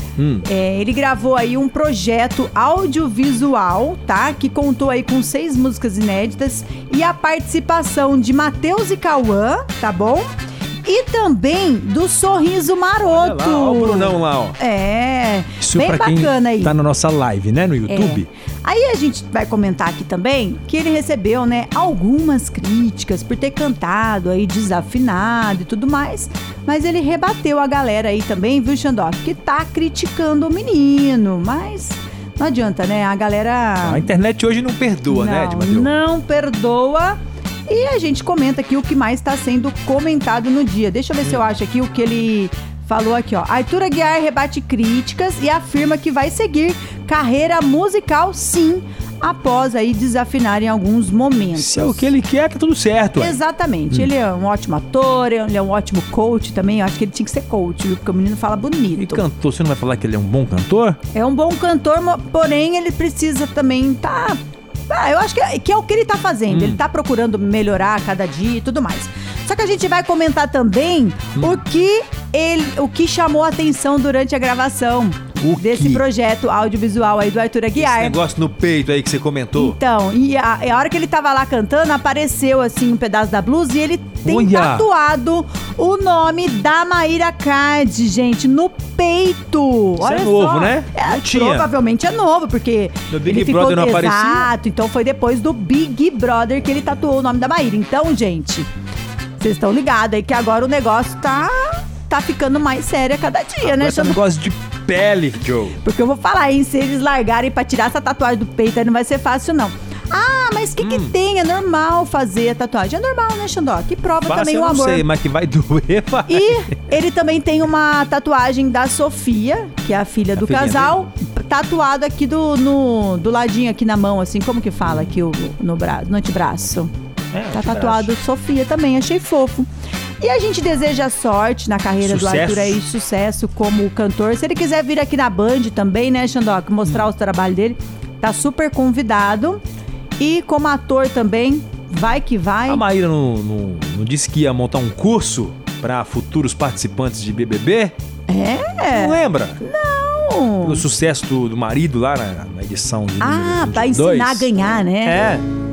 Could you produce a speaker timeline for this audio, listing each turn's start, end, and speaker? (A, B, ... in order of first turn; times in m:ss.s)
0:00.2-0:00.4 A
0:00.4-0:10.3 B
0:10.8-0:16.7 B
0:13.0-0:14.6 A
0:15.6-0:18.3 A
0:17.9-0:34.1 B
0:33.8-0:35.9 A
0:35.1-0:52.1 B
0:51.5-0:53.4 A
0:53.2-0:59.2 B
0:58.9-1:01.0 A
1:01.1-1:18.2 B
1:06.5-1:06.8 A
1:11.4-1:11.6 A
1:15.4-1:16.0 A
1:17.8-1:19.8 A
1:19.6-1:38.7 B
1:24.2-1:24.9 A
1:30.0-1:31.7 A
1:33.1-1:34.5 A
1:39.4-1:44.2 B
1:43.6-1:45.8 A
1:45.8-1:55.1 B
1:50.8-1:51.1 A
1:54.2-1:56.8 A
1:56.3-2:06.9 B
2:00.4-2:00.9 A
2:07.3-2:08.1 A
2:07.5-2:09.7 B
2:10.2-2:19.6 B
2:12.0-2:12.8 A
2:20.2-2:22.8 B
2:22.7-2:28.0 A
2:28.3-2:30.8 B
2:28.9-2:29.6 A
2:30.6-2:34.5 A
2:33.2-2:35.2 B
2:35.0-2:35.4 A